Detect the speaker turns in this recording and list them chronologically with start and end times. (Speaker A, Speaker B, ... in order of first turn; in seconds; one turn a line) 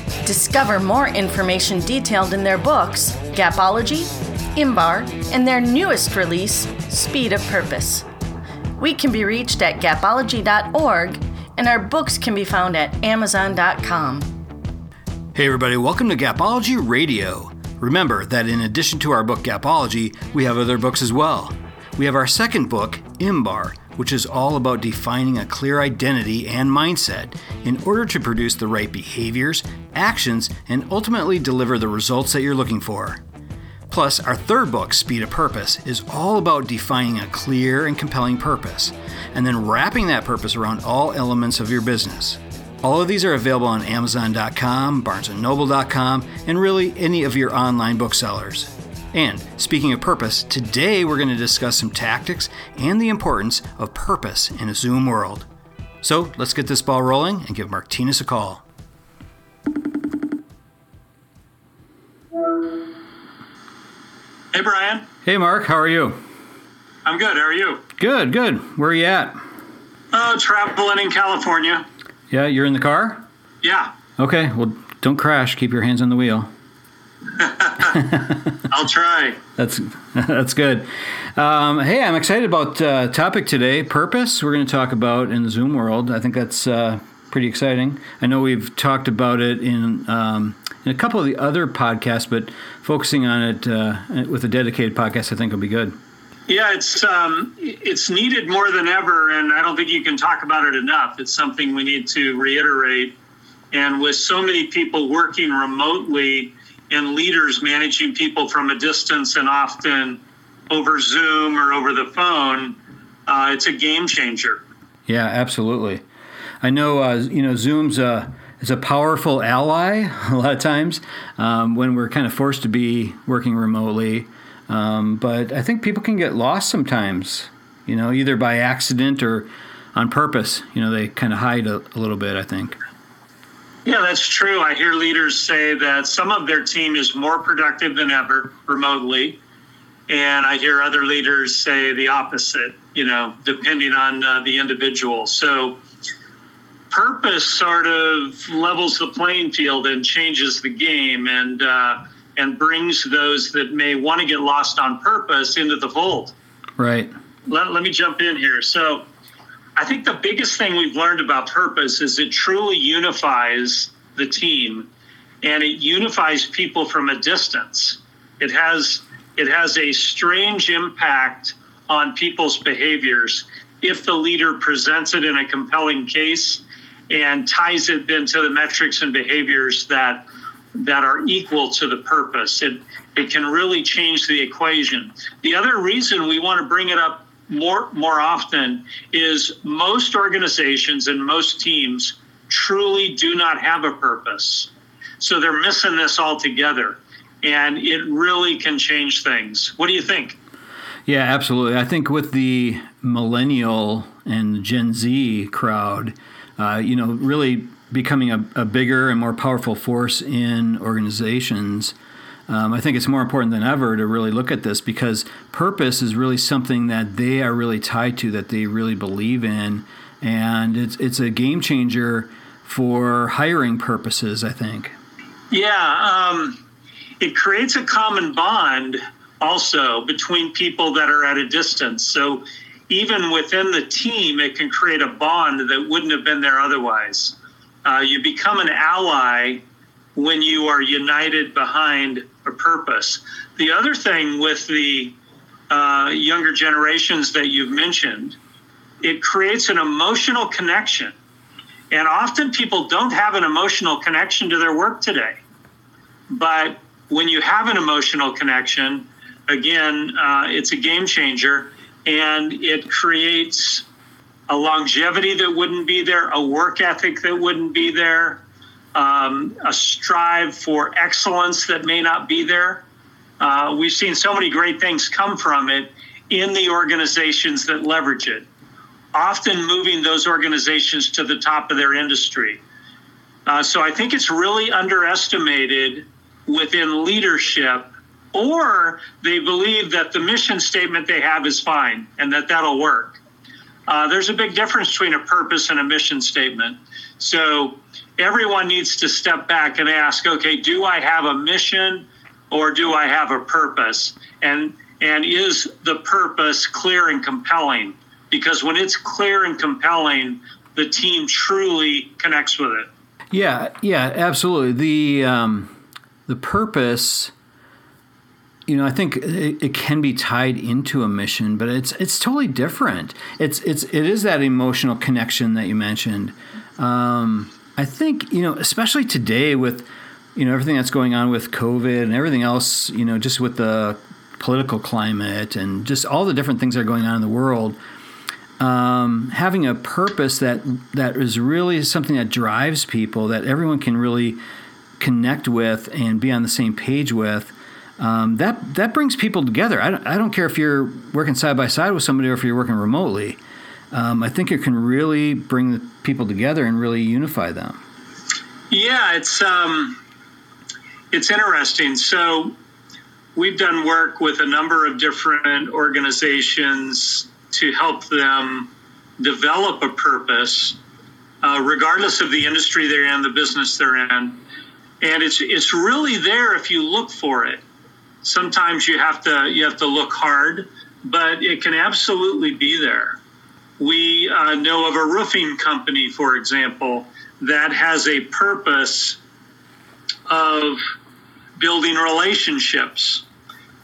Speaker A: 0.2-8.1
Speaker A: 8.8-14.3
Speaker B: 15.3-33.2
Speaker B: 33.9-55.5
Speaker B: 56.0-58.6
Speaker C: 64.5-65.1
Speaker B: 65.2-66.2
Speaker C: 67.0-67.8
Speaker B: 68.0-69.4
Speaker C: 70.1-71.8
Speaker B: 72.3-73.2
Speaker C: 73.6-73.9
Speaker B: 74.2-76.5
Speaker C: 77.4-77.8
Speaker B: 77.9-78.5
Speaker C: 78.7-79.4
Speaker B: 79.6-95.9
Speaker C: 96.5-103.1
Speaker C: 103.7-112.8
Speaker C: 113.3-114.6
Speaker B: 115.1-116.0
Speaker B: 116.6-132.8
Speaker C: 133.8-139.4
Speaker C: 140.1-145.8
Speaker C: 146.9-156.3
Speaker B: 156.8-157.1
Speaker C: 157.4-159.0
Speaker C: 159.8-164.9
Speaker C: 165.4-180.2
Speaker C: 180.7-200.3
Speaker B: 201.1-211.9
Speaker B: 212.5-224.9
Speaker C: 225.5-226.6
Speaker C: 227.2-239.6
Speaker C: 240.1-245.1
Speaker C: 245.7-248.4
Speaker C: 249.0-251.1
Speaker C: 251.9-255.4
Speaker C: 256.3-263.8
Speaker C: 264.5-268.4
Speaker C: 268.9-272.8
Speaker C: 273.4-278.4
Speaker C: 279.1-282.6
Speaker C: 283.4-293.2
Speaker C: 293.9-312.9
Speaker B: 313.3-315.7
Speaker B: 316.3-317.3
Speaker B: 318.7-337.8
Speaker B: 338.6-344.4
Speaker B: 345.0-353.4
Speaker B: 353.9-357.8
Speaker C: 358.7-360.0
Speaker C: 361.1-362.5
Speaker C: 363.4-370.8
Speaker C: 371.4-374.4
Speaker C: 375.0-377.6
Speaker C: 378.2-383.2
Speaker C: 383.8-389.2
Speaker C: 390.3-390.8
Speaker C: 391.6-393.2